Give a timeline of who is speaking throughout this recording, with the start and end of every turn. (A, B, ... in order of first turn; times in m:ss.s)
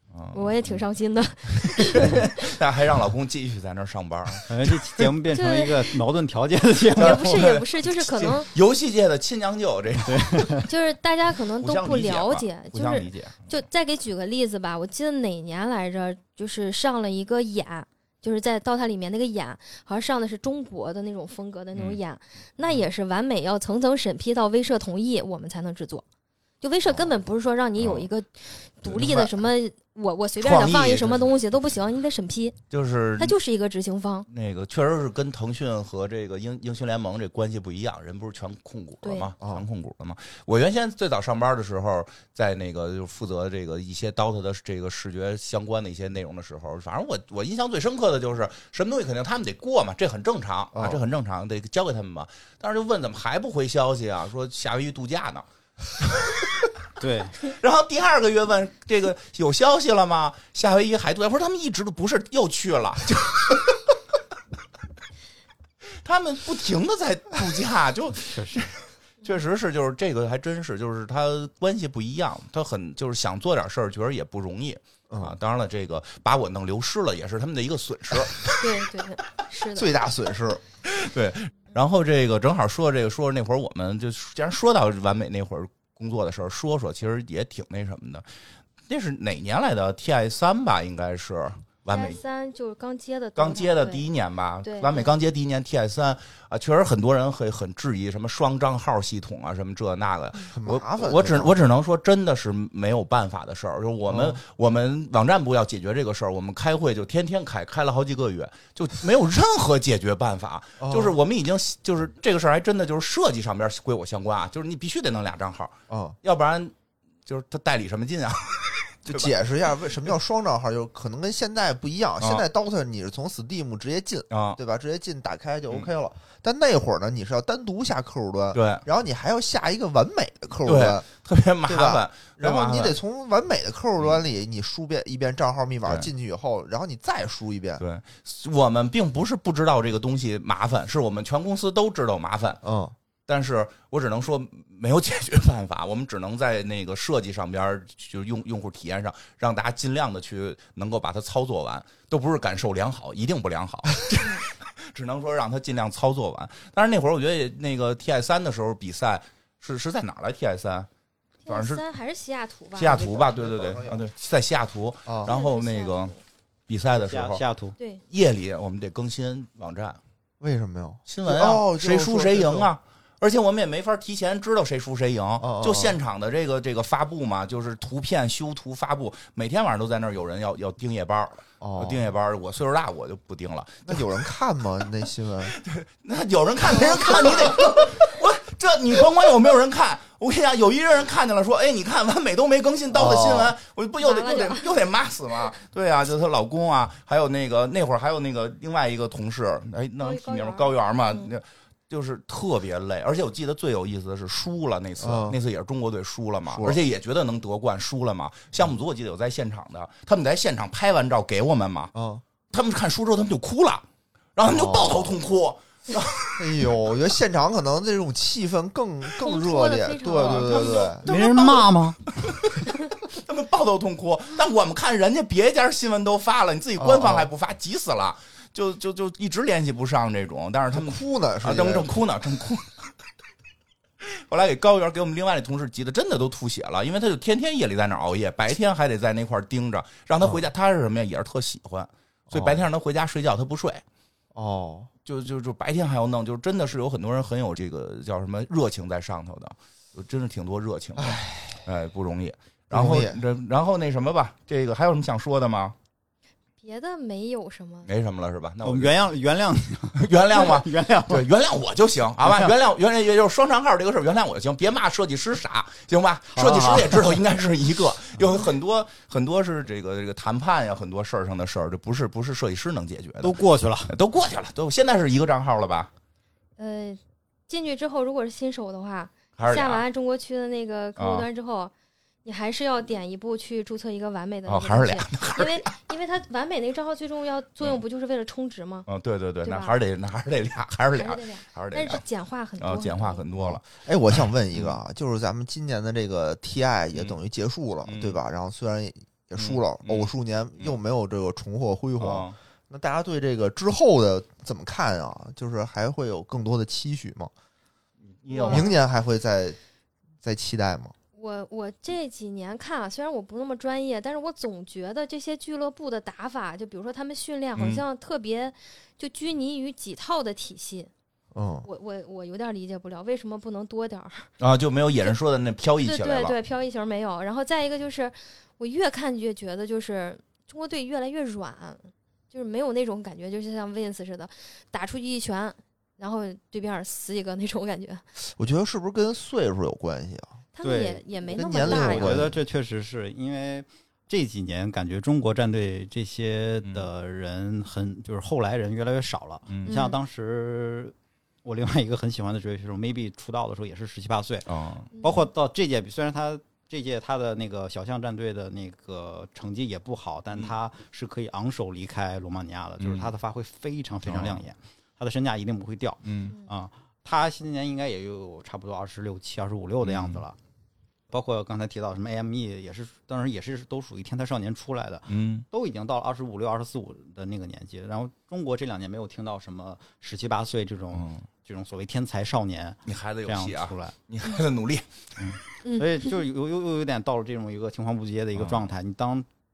0:00.1-0:00.8 A
0:00.3-0:02.4 B
0:01.6-0:05.1 A
0:04.5-0:07.4 C
0:05.3-0:05.8 B
0:07.0-0:08.5 B
0:07.0-0:10.6 A
0:10.0-0:10.6 C
0:10.6-0:26.0 B
0:11.6-0:13.5 A
0:26.6-0:32.6 B
0:27.8-0:28.1 A
0:28.8-0:29.4 A
0:30.4-0:31.3 A
0:32.7-0:33.4 A
0:33.2-0:34.3 B
0:34.3-0:55.4 A
0:39.0-0:39.3 B
0:50.7-0:51.0 D
0:56.0-0:56.3 A
0:57.0-0:57.4 C
0:57.4-1:03.8 A
1:06.0-1:18.6 A
1:08.2-1:08.6 C
1:15.1-1:15.4 D
1:18.6-1:19.9 B
1:19.7-1:20.6 D
1:20.9-1:28.2 A
1:28.9-1:32.2 A
1:31.9-1:34.1 B
1:33.4-1:56.7 A
1:34.6-1:35.1 B
1:40.5-1:41.6 D
1:44.1-1:44.4 D
1:50.8-1:51.2 D
1:55.9-1:56.2 D
1:57.2-1:59.3 A
1:59.1-2:11.1 D
2:04.3-2:04.6 A
2:08.5-2:08.8 A
2:10.6-2:13.0 A
2:11.6-2:17.8 D
2:17.8-2:22.6 A
2:22.6-2:22.9 D
2:23.2-2:40.9 A
2:41.4-2:43.1 B
2:41.5-2:41.8 A
2:42.8-2:46.1 A
2:42.8-2:44.0 D
2:45.1-2:45.3 D
2:45.3-2:46.2 B
2:46.7-2:47.4 A
2:46.9-2:47.7 C
2:48.1-2:50.0 A
2:50.4-2:52.7 D
2:51.1-3:04.0 A
2:55.4-2:56.0 D
3:01.6-3:02.1 D
3:03.8-3:05.6 D
3:05.5-3:31.9 A
3:06.8-3:07.0 B
3:12.9-3:13.6 D
3:14.0-3:14.7 B
3:20.0-3:21.3 B
3:25.0-3:25.4 D
3:26.5-3:26.8 D
3:31.9-3:32.2 D
3:32.5-3:33.8 A
3:34.4-3:36.5 A
3:34.4-3:35.2 D
3:36.4-3:41.1 D
3:39.2-3:41.0 B
3:40.2-3:41.7 A
3:41.0-3:42.2 C
3:42.2-3:52.8 A
3:46.8-3:47.3 D
3:50.7-3:51.9 D
3:54.0-4:03.8 A
4:02.3-4:02.6 D
4:04.3-4:04.9 D
4:05.0-4:15.7 A
4:11.0-4:11.5 D
4:12.7-4:13.2 D
4:16.6-4:17.9 B
4:17.8-4:18.9 A
4:18.6-4:21.3 C
4:20.0-4:33.4 A
4:22.2-4:22.5 C
4:26.3-4:27.1 C
4:33.2-4:33.9 C
4:33.9-4:35.9 A
4:36.6-4:41.7 B
4:39.4-4:39.8 A
4:41.0-4:41.3 A
4:42.2-4:48.9 B
4:44.5-4:45.6 A
4:48.9-4:52.0 A
4:49.4-4:49.8 B
4:50.9-4:53.2 B
4:52.6-4:53.6 A
4:53.3-5:07.3 D
4:54.2-4:54.8 A
4:57.8-4:58.2 A
4:59.4-5:00.1 A
5:02.0-5:02.4 A
5:08.1-5:08.7 A
5:08.3-5:08.7 B
5:08.4-5:09.6 D
5:10.2-5:10.9 D
5:11.2-5:20.9 B
5:17.6-5:17.8 A
5:21.3-5:21.7 D
5:21.6-5:24.3 B
5:24.4-5:26.3 A
5:25.8-5:38.0 B
5:38.4-5:40.4 D
5:40.5-5:42.2 B
5:40.6-6:10.4 C
5:41.3-5:42.4 D
5:49.5-5:49.7 A
5:49.6-5:50.0 B
5:54.5-5:54.9 A
5:54.9-5:55.3 B
6:02.8-6:03.1 A
6:04.0-6:04.4 A
6:06.0-6:06.4 A
6:09.8-6:10.2 A
6:11.1-6:24.0 C
6:15.1-6:15.4 A
6:20.9-6:21.2 A
6:22.8-6:25.2 A
6:25.2-6:29.2 C
6:28.4-6:28.6 A